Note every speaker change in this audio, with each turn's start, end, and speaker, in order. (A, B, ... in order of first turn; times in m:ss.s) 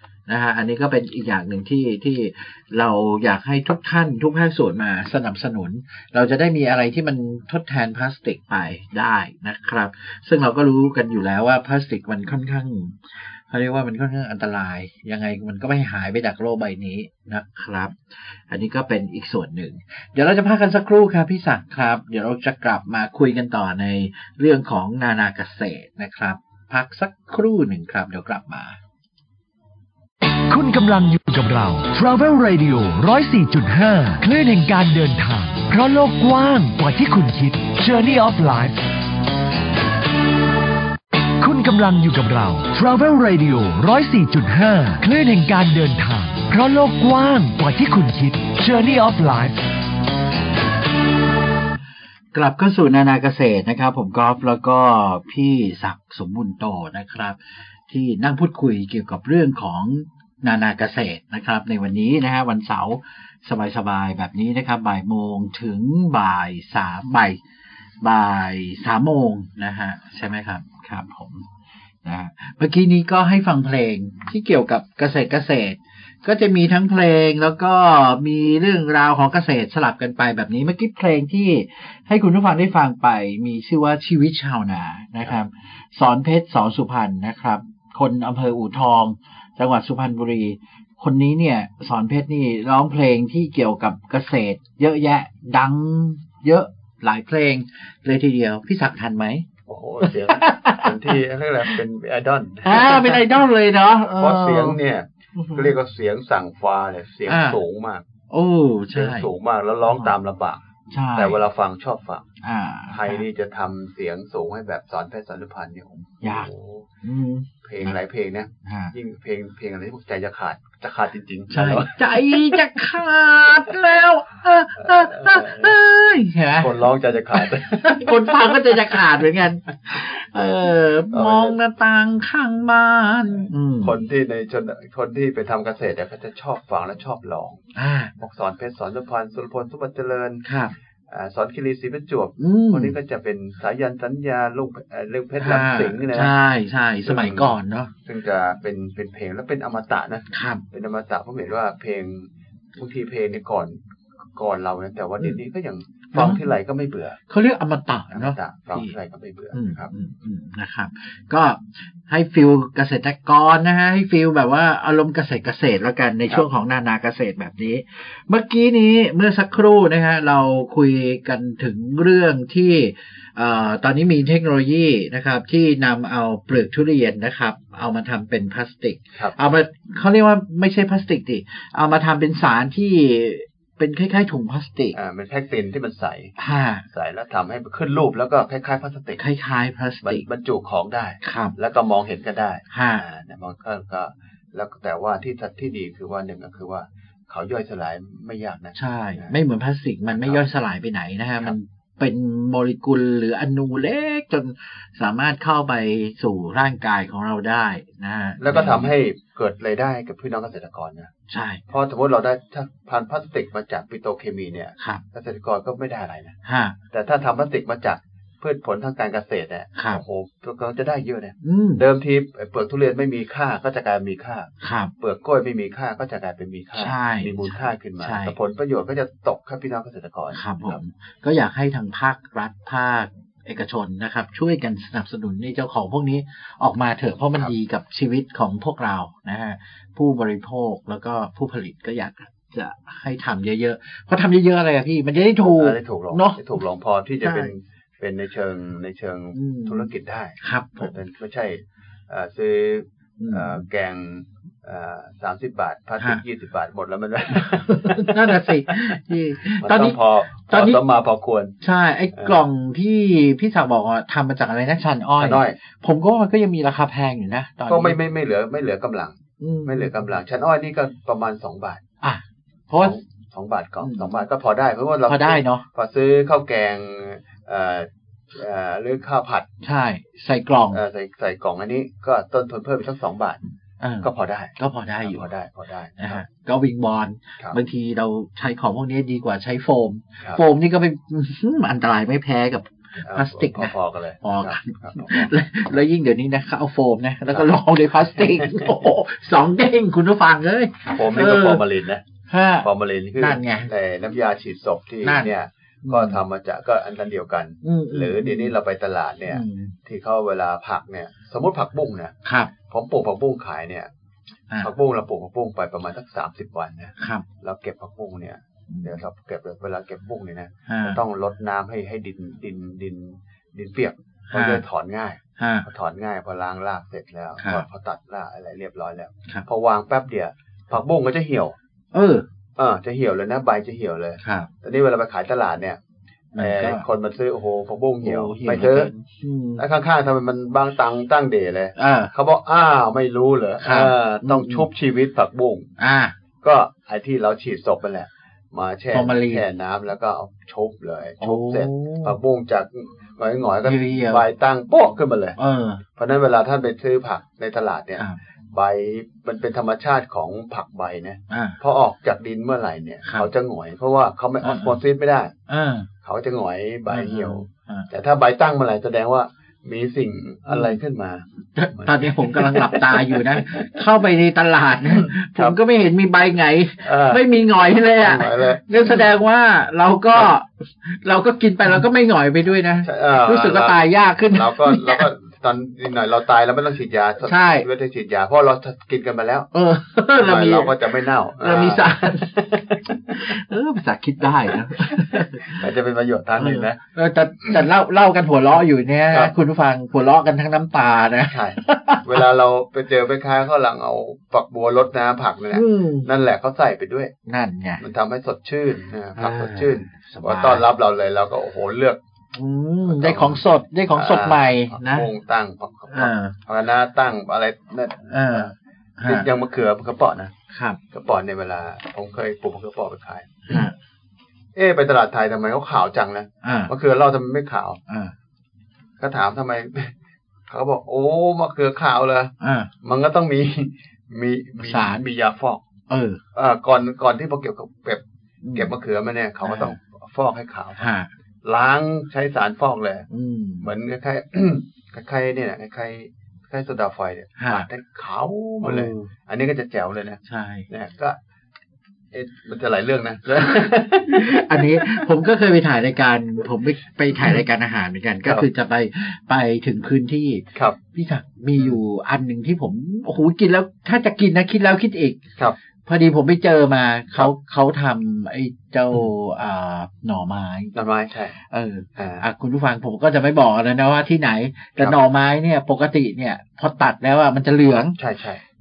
0:00.3-0:28.8 A
0:30.5-0:38.8 B
0:41.4-0:49.6 B
0:52.3-1:07.4 A
1:08.0-1:11.5 A
1:12.0-1:39.4 A
1:39.7-1:43.4 C
1:40.0-1:41.8 A
1:42.6-1:44.8 A
1:44.2-1:48.0 C
1:45.4-1:45.7 A
1:47.3-1:47.6 A
1:48.3-1:49.3 A
1:48.9-1:52.2 C
1:49.9-1:50.1 A
1:50.9-1:51.4 A
1:52.4-1:53.2 A
1:52.9-1:56.9 C
1:56.2-1:56.5 A
1:57.0-1:58.0 A
1:57.6-2:02.8 C
1:58.6-1:58.9 A
2:01.5-2:06.8 A
2:04.8-2:05.8 C
2:06.5-2:09.1 C
2:07.3-2:14.0 A
2:11.1-2:11.6 C
2:13.8-2:17.6 C
2:17.7-2:18.1 A
2:18.2-2:20.4 C
2:20.4-2:20.7 A
2:21.1-2:26.3 C
2:22.4-2:23.0 A
2:25.4-2:27.9 A
2:27.0-2:33.8 C
2:30.3-2:30.6 A
2:34.3-2:37.2 C
2:36.1-2:36.5 A
2:37.3-2:38.9 A
2:38.1-2:39.9 C
2:39.5-3:04.9 A
3:04.9-3:06.3 C
3:06.4-3:06.8 A
3:06.9-3:09.2 C
3:09.2-3:10.2 A
3:10.0-3:19.4 C
3:11.2-3:11.6 A
3:12.7-3:13.0 A
3:18.8-3:28.9 A
3:20.1-3:20.4 C
3:28.4-3:31.1 C
3:31.3-3:31.6 A
3:31.7-3:36.3 C
3:36.4-3:36.8 A
3:36.9-3:50.8 C
3:39.8-3:40.0 A
3:41.4-3:41.8 A
3:44.6-3:44.9 A
3:46.8-3:48.4 A
3:50.3-4:06.6 A
4:05.4-4:19.0 C
4:07.2-4:07.5 A
4:09.3-4:10.9 A
4:13.2-4:13.6 A
4:17.4-4:20.8 A
4:19.6-4:21.6 C
4:21.6-4:28.0 A
4:25.2-4:25.6 C
4:27.7-4:31.8 C
4:29.4-4:30.2 A
4:32.0-4:33.0 A
4:32.8-4:39.5 C
4:33.8-4:34.2 A
4:35.1-4:35.6 A
4:39.6-4:40.8 A
4:40.7-4:43.4 C
4:43.8-4:45.3 A
4:44.0-4:46.2 C
4:46.0-5:01.6 A
4:53.0-4:55.3 C
4:58.2-4:58.8 C
5:00.9-5:02.0 C
5:02.3-5:03.7 A
5:02.6-5:12.1 C
5:05.0-5:05.3 A
5:05.8-5:06.2 A
5:07.6-5:08.6 A
5:09.3-5:09.7 A
5:12.2-5:12.5 A
5:12.7-5:13.9 C
5:14.6-5:31.6 C
5:17.0-5:17.2 A
5:18.7-5:19.0 A
5:20.7-5:21.0 A
5:24.3-5:24.6 A
5:25.4-5:25.7 A
5:27.4-5:27.6 A
5:31.9-5:32.2 A
5:32.6-5:35.8 C
5:34.2-5:34.5 A
5:36.3-5:36.8 A
5:36.3-5:38.9 C
5:38.0-5:39.6 A
5:39.6-5:45.7 C
5:41.8-5:42.1 A
5:43.6-5:44.7 A
5:45.8-5:46.1 A
5:46.4-5:55.4 C
5:48.9-5:49.4 A
5:51.2-5:52.2 A
5:53.6-5:54.2 A
5:55.4-5:55.8 A
5:56.0-6:05.3 C
6:01.3-6:01.6 A
6:03.0-6:03.3 A
6:04.4-6:04.8 A
6:05.5-6:05.9 A
6:06.0-6:13.8 C
6:06.9-6:07.9 A
6:10.5-6:10.8 A
6:11.6-6:25.0 A
6:14.9-6:15.6 C
6:16.8-6:17.3 C
6:18.0-6:19.1 C
6:22.8-6:29.5 C
6:27.2-6:27.7 A
6:29.5-6:30.8 A
6:30.2-6:33.4 C
6:31.4-6:32.4 A
6:33.1-6:35.6 A
6:34.9-6:36.8 C
6:36.4-6:42.2 A
6:41.3-6:47.1 C
6:45.5-6:46.1 A
6:47.3-6:47.8 A
6:47.8-6:52.0 C
6:49.2-6:50.6 A
6:52.3-6:55.1 A
6:52.8-7:00.3 C
6:55.9-6:56.4 A
6:58.1-6:59.3 A
7:00.5-7:00.8 A
7:00.9-7:03.7 C
7:03.5-7:03.7 A
7:04.5-7:07.8 C
7:06.4-7:06.7 A
7:07.9-7:08.1 A
7:09.0-7:10.0 C
7:10.5-7:15.6 C
7:12.4-7:12.7 A
7:14.6-7:15.0 A
7:15.9-7:16.2 A
7:16.3-7:18.0 C
7:18.4-7:18.7 A
7:18.5-7:20.9 C
7:19.4-7:19.8 A
7:20.8-7:21.1 A
7:21.4-7:23.1 C
7:23.1-7:23.7 A
7:23.6-7:31.2 C
7:27.4-7:27.7 A
7:28.6-7:29.1 A
7:30.2-7:30.7 A
7:32.1-7:35.1 C
7:34.1-7:45.2 A
7:37.1-7:37.4 C
7:45.8-7:50.7 A
7:50.7-7:51.3 C
7:51.5-7:58.0 A
7:52.0-7:52.2 C
7:58.0-7:58.4 C